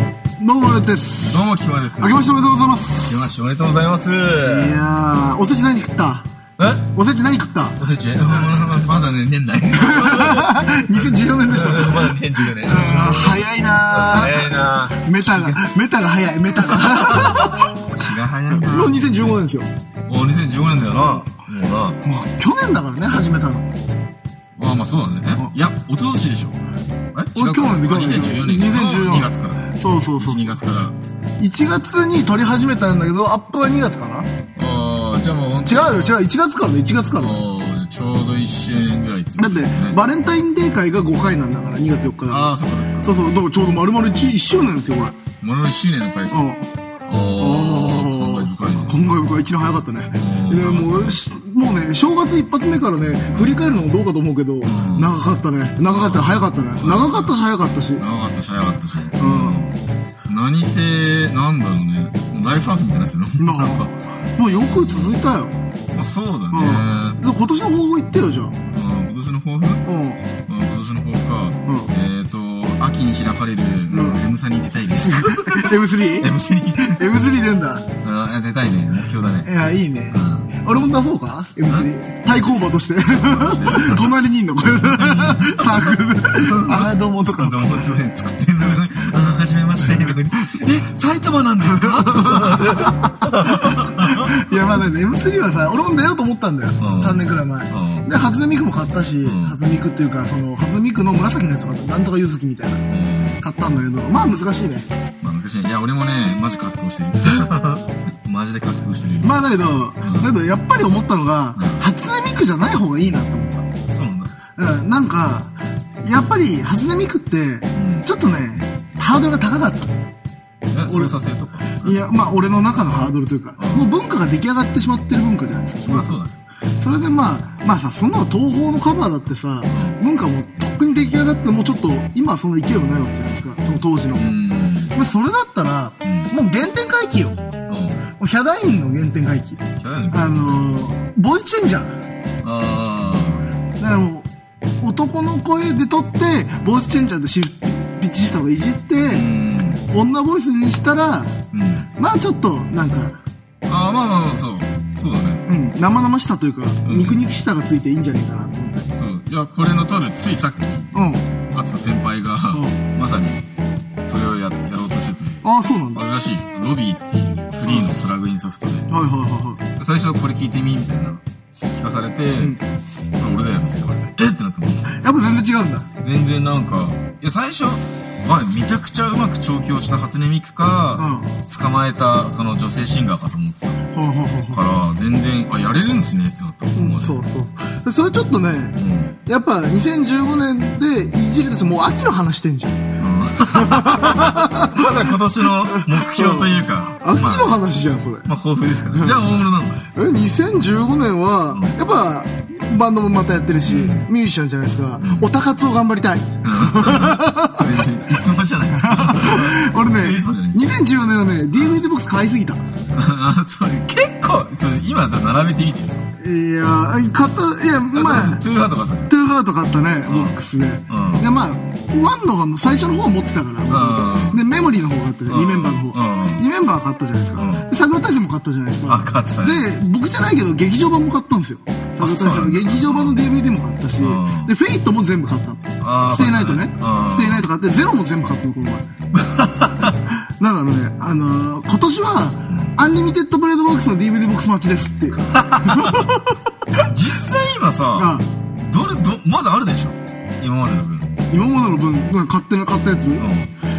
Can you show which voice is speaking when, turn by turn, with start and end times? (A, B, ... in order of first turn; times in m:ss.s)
0:00.4-0:01.4 A
0:01.2-0:04.8 B
0:02.0-0:03.3 A
0:04.4-0:06.3 A
0:06.6-0:06.8 B
0:06.9-0:08.6 A
0:07.8-0:15.7 B
0:09.8-0:17.7 A
0:16.6-0:19.2 B
0:18.5-0:19.7 A
0:20.1-0:22.0 B
0:22.0-0:23.7 A
0:24.6-0:26.6 B
0:27.1-0:31.0 B
0:27.3-0:30.6 A
0:31.4-0:34.3 A
0:34.6-0:36.2 B
0:35.6-0:37.4 A
0:37.1-0:40.0 B
0:39.4-0:42.5 A
0:42.3-0:43.3 B
0:43.0-0:45.2 A
0:45.4-0:46.4 B
0:46.3-0:46.7 A
0:47.0-0:49.0 B
0:47.4-0:58.0 A
0:50.2-0:51.2 B
0:53.3-0:53.6 B
0:54.6-0:55.2 B
0:55.8-0:57.4 B
0:58.0-0:59.8 B
0:59.2-0:59.6 A
1:00.3-1:03.9 B
1:03.4-1:05.5 A
1:04.4-1:05.2 B
1:05.9-1:07.2 B
1:06.5-1:08.6 A
1:08.7-1:09.8 B
1:09.8-1:10.2 A
1:10.5-1:17.2 B
1:11.7-1:11.9 A
1:13.9-1:14.2 A
1:15.0-1:17.9 A
1:18.0-1:19.5 B
1:19.4-1:27.8 A
1:20.1-1:20.5 B
1:23.1-1:34.6 B
1:31.8-1:42.8 A
1:36.8-1:38.1 B
1:39.2-1:39.6 B
1:42.9-1:43.4 B
1:43.4-1:44.9 A
1:45.2-1:49.4 B
1:49.2-1:53.7 A
1:50.0-1:50.3 B
1:51.6-1:51.8 B
1:53.9-1:54.3 B
1:54.6-1:59.9 A
1:57.7-1:58.1 B
2:00.7-2:02.1 B
2:00.9-2:01.1 A
2:01.8-2:06.2 A
2:03.6-2:03.9 B
2:05.8-2:06.4 B
2:06.8-2:14.2 A
2:09.7-2:10.0 B
2:14.2-2:15.0 B
2:14.9-2:17.4 A
2:16.0-2:16.3 B
2:17.7-2:18.0 B
2:18.2-2:19.6 A
2:19.8-2:20.8 B
2:20.1-2:22.0 A
2:22.4-2:23.5 B
2:23.8-2:24.3 A
2:24.8-2:29.2 A
2:29.0-2:29.8 B
2:29.9-2:31.4 A
2:31.5-2:31.9 B
2:32.0-2:33.2 A
2:33.7-2:35.4 B
2:35.5-2:38.9 A
2:36.8-2:37.2 B
2:39.0-2:43.4 B
2:40.9-2:41.2 A
2:42.5-2:42.8 A
2:44.0-2:48.9 B
2:45.4-2:46.0 A
2:48.9-2:49.6 A
2:49.8-2:52.6 B
2:53.2-2:55.0 B
2:54.9-2:55.9 A
2:56.0-3:03.8 B
3:01.0-3:01.4 A
3:03.9-3:04.6 A
3:04.5-3:07.2 B
3:06.8-3:12.8 A
3:08.8-3:09.2 B
3:13.0-3:17.6 B
3:13.5-3:14.9 A
3:15.7-3:18.3 A
3:18.2-3:19.9 B
3:18.9-3:19.4 A
3:19.9-3:27.8 A
3:21.5-3:21.8 B
3:23.6-3:24.1 B
3:25.0-3:25.3 B
3:26.4-3:30.8 B
3:28.8-3:32.6 A
3:31.6-3:31.8 B
3:32.9-3:36.1 B
3:36.2-3:38.4 A
3:37.9-3:39.1 B
3:39.1-3:58.9 A
3:40.1-3:41.3 B
3:43.7-3:44.4 B
3:45.2-3:46.4 B
3:47.3-3:47.7 B
3:48.9-3:49.7 B
3:52.0-3:53.4 B
3:54.0-3:54.5 B
3:55.8-3:57.5 B
3:59.3-4:00.0 B
4:00.1-4:06.9 A
4:02.5-4:02.8 B
4:05.4-4:06.1 B
4:06.8-4:11.2 B
4:08.0-4:08.2 A
4:11.3-4:13.3 A
4:13.2-4:13.5 B